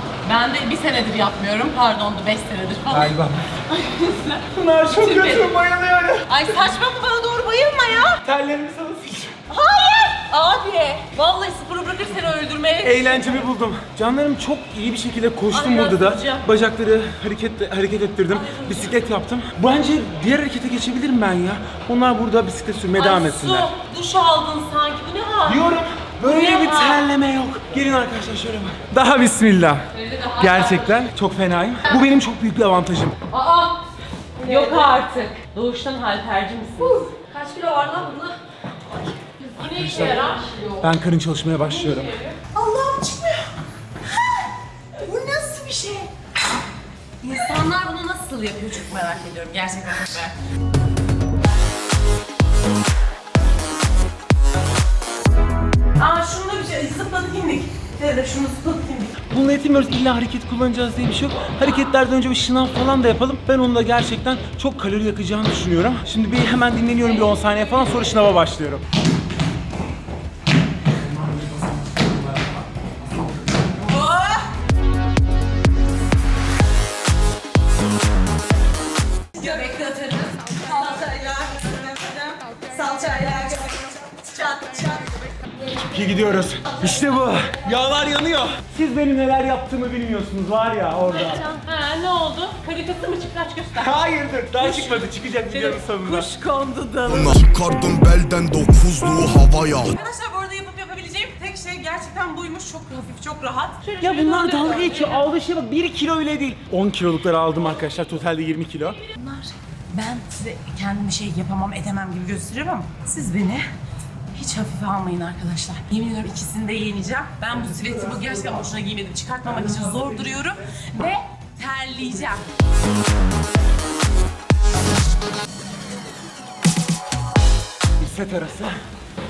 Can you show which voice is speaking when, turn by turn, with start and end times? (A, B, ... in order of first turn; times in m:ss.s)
0:00.2-0:03.1 A
0:02.9-0:03.6 B
0:03.7-0:05.6 A
0:04.5-0:06.4 B
0:06.3-0:08.2 A
0:08.2-0:09.4 B
0:09.5-0:13.5 A
0:12.8-0:23.7 B
0:15.5-0:16.5 A
0:18.3-0:19.0 A
0:23.0-0:27.1 A
0:25.4-0:29.9 B
0:29.9-0:31.1 A
0:30.4-0:33.1 B
0:33.3-0:33.8 A
0:34.4-0:37.0 A
0:34.4-0:34.9 C
0:36.8-0:39.2 C
0:39.4-0:40.5 A
0:39.7-0:40.2 B
0:40.2-0:40.9 C
0:40.8-0:42.1 B
0:41.6-0:43.5 A
0:45.0-0:46.1 A
0:47.2-0:50.4 A
0:56.0-0:59.2 A
0:59.3-1:08.8 B
1:07.0-1:08.4 A
1:11.0-1:12.4 B
1:13.8-1:14.5 A
1:19.4-1:25.4 A
1:25.5-1:27.6 C
1:25.9-1:31.4 B
1:31.1-1:34.0 A
1:33.7-1:36.3 B
1:34.6-1:37.4 A
1:37.0-1:39.9 D
1:38.9-1:45.3 A
1:44.0-1:49.0 B
1:49.0-1:53.7 A
1:54.3-2:02.5 A
2:08.0-2:08.8 B